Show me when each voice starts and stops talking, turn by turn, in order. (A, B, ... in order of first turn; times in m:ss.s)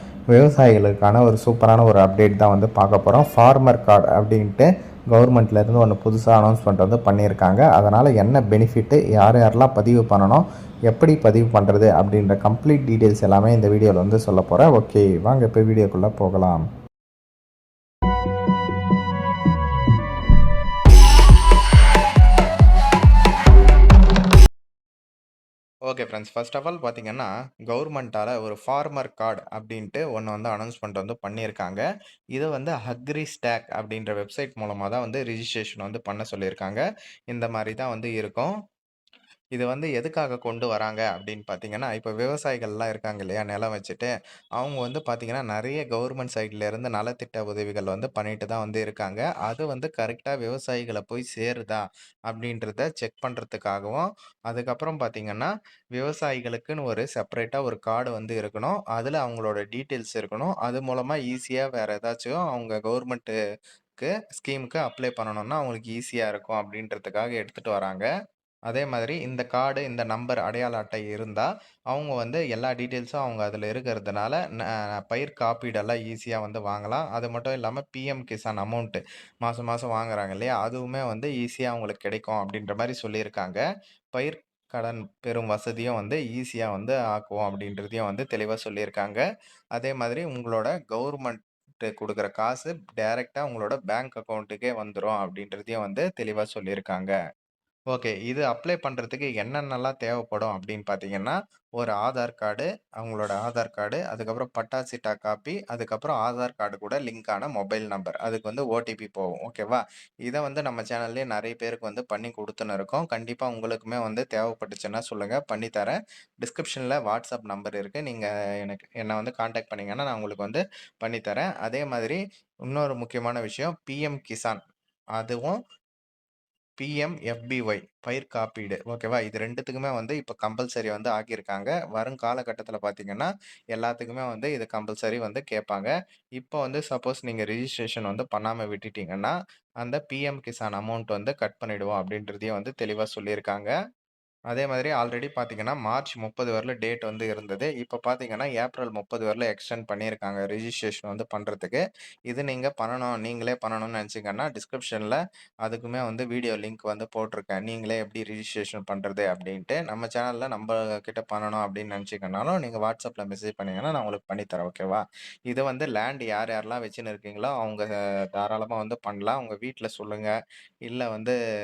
0:00.3-0:16.6 A
0:25.9-0:31.8 A
0:32.4-0:38.5 A
0:39.6-1:03.4 A
1:04.0-1:08.1 A
1:08.7-1:14.4 A
1:15.0-1:23.6 A
1:24.1-1:29.2 A
1:29.8-1:37.1 A
1:37.9-2:04.6 A
2:05.2-2:05.6 A
2:06.8-2:23.7 A
2:24.5-2:50.3 A
2:50.9-2:51.4 A